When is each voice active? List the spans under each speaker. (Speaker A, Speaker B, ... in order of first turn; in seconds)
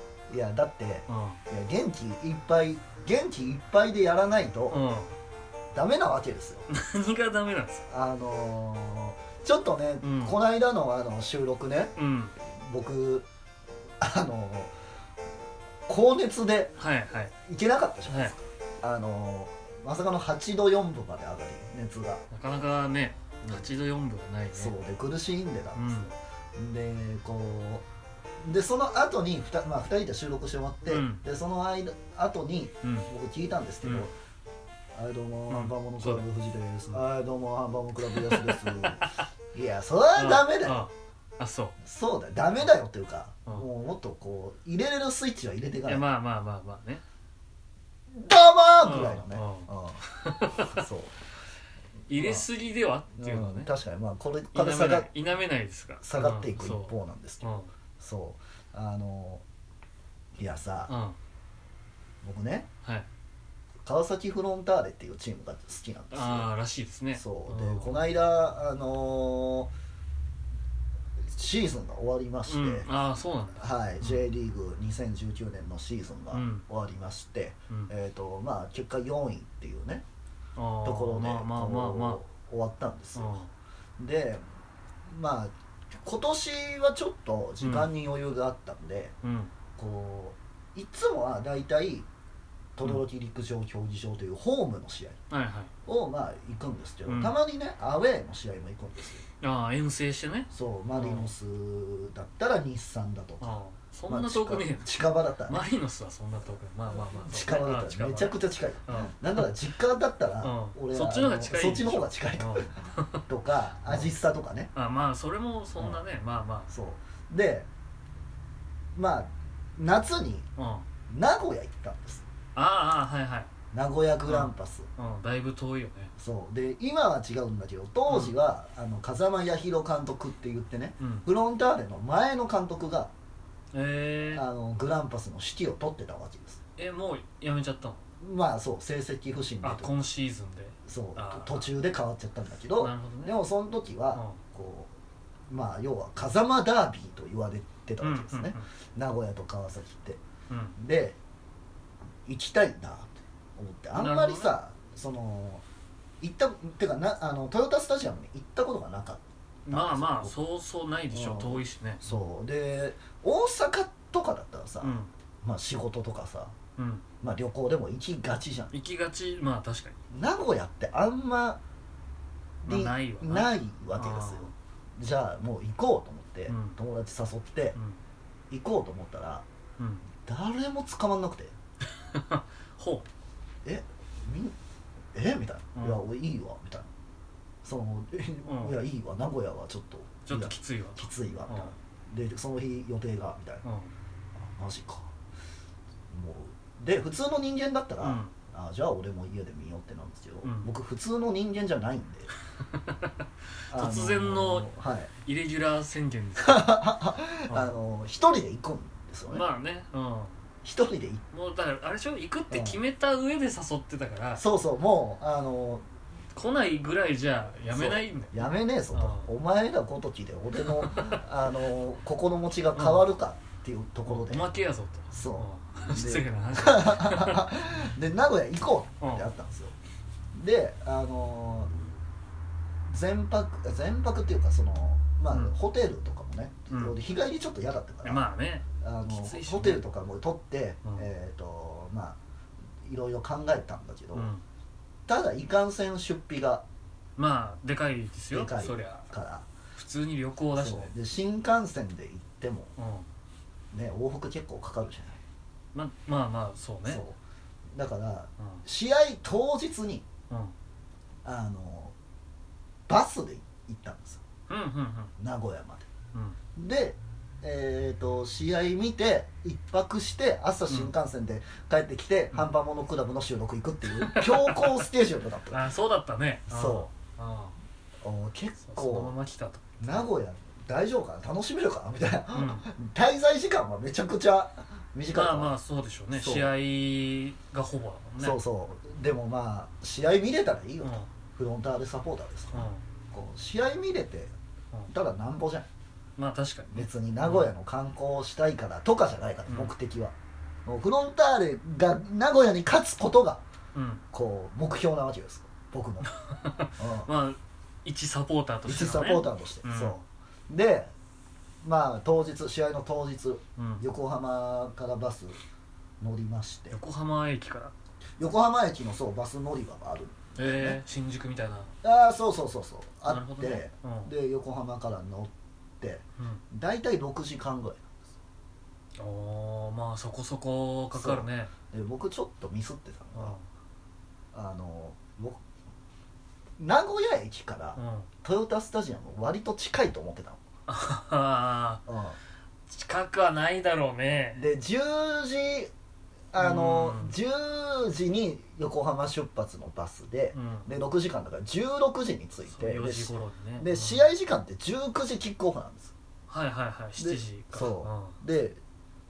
Speaker A: 0.3-4.8, 5.7-6.7, 7.9-13.3, 14.0-14.7, 15.9-16.8, 17.4-22.2, 24.5-27.8, 28.4-34.1, 34.9-40.8, 41.8-46.0, 48.1-50.0, 50.6-51.2, 52.1-52.5, 53.2-55.1, 56.0-59.4, 60.4-60.9, 62.2-62.7, 63.8-66.5, 67.1-69.7, 71.3-72.9, 73.6-80.0, 80.8-83.4, 84.0-84.4, 85.1-89.1, 89.8-92.1, 92.8-95.2, 95.8-99.2, 100.5-105.7, 107.1-112.7, 113.3-114.7, 116.7-117.7, 118.9-120.5, 121.1-122.3, 123.7-124.9, 126.2-133.1, 134.3-136.6, 138.2-139.9, 140.8-144.9, 145.5-150.2, 150.8-151.2, 152.2-155.6, 156.2-160.3, 161.1-166.5, 167.2-168.7, 170.1-171.6, 172.6-177.8, 178.5-179.4, 180.2-181.5, 183.6-184.6, 185.1-186.9, 187.6-193.6, 194.3-195.1, 196.1-202.3, 203.7-205.1, 206.4-209.5, 210.6-211.2, 212.5-212.8, 214.3-215.8, 217.7-224.5, 225.1-229.7, 230.3-231.7, 232.9-238.2, 238.8-242.2, 242.8-244.3, 245.1-246.6, 248.3-249.5, 250.5-252.7, 253.7-255.2, 256.8-257.2, 257.7-260.1, 261.2-261.9, 262.9-264.2, 265.2-265.9, 266.6-275.7, 276.5-276.9, 278.0-279.1, 279.8-285.6, 286.1-286.5, 288.2-294.3, 294.9-295.7, 296.7-303.4, 304.1-306.1, 306.8-307.1, 308.6-310.9, 311.6-315.4, 316.0-316.8, 318.2-320.8, 321.8-327.9, 330.9-333.4, 334.3-335.4, 336.6-340.4, 341.9-342.2, 344.3-345.7, 346.3-355.9, 357.0-358.6
Speaker B: 1.1-1.4, 4.7-5.1, 6.7-7.8, 10.0-10.4, 12.0-12.3, 16.8-17.3, 18.1-18.3, 22.3-24.7, 25.8-26.1, 30.9-31.2, 32.8-33.1, 35.5-36.2, 38.1-39.2, 40.1-41.8, 45.8-47.0, 48.8-50.8, 52.1-53.7, 54.5-57.7, 60.9-61.1, 66.1-68.0, 72.5-74.2, 76.3-76.6, 80.5-82.2, 83.1-83.5, 87.6-87.9, 89.2-89.5, 95.3-95.7, 97.0-97.4, 99.4-101.3, 103.4-109.5, 110.4-113.2, 113.8-114.1, 114.7-116.7, 120.6-120.9, 122.5-123.5, 124.2-126.1, 128.1-128.3, 131.0-131.2, 133.7-134.4, 136.8-138.0, 139.6-141.7, 142.8-143.3, 144.1-144.4, 148.0-148.7, 150.5-150.7, 153.9-154.5, 159.7-162.0, 164.8-165.1, 166.8-167.0, 168.7-169.9, 172.6-174.5, 176.5-176.8, 179.8-180.1, 182.0-183.1, 185.8-186.1, 188.4-188.8, 190.2-191.7, 193.6-193.9, 198.0-198.3, 200.4-200.7, 202.7-203.1, 203.7-204.7, 205.2-206.8, 207.5-207.8, 209.3-210.3, 211.3-214.4, 216.3-219.3, 220.7-221.2, 222.7-223.1, 224.1-227.4, 229.0-229.3, 235.3-235.6, 236.7-237.0, 238.0-239.8, 240.8-241.1, 244.1-244.4, 247.2-249.1, 249.7-250.9, 252.8-253.1, 255.7-257.0, 260.3-260.5, 264.5-265.1, 270.7-270.9, 274.0-274.9, 275.5-277.5, 278.6-280.0, 282.3-282.6, 285.1-288.4, 290.8-291.1, 292.5-292.8, 296.2-297.5, 299.5-299.7, 303.7-304.0, 306.1-310.0, 313.6-313.8, 316.7-317.7, 320.3-321.7, 323.1-324.1, 329.0-331.5, 333.1-333.4, 337.8-338.1, 340.7-341.8, 342.7-344.4, 346.4-347.1, 350.3-350.7, 352.5-354.1, 356.3-358.2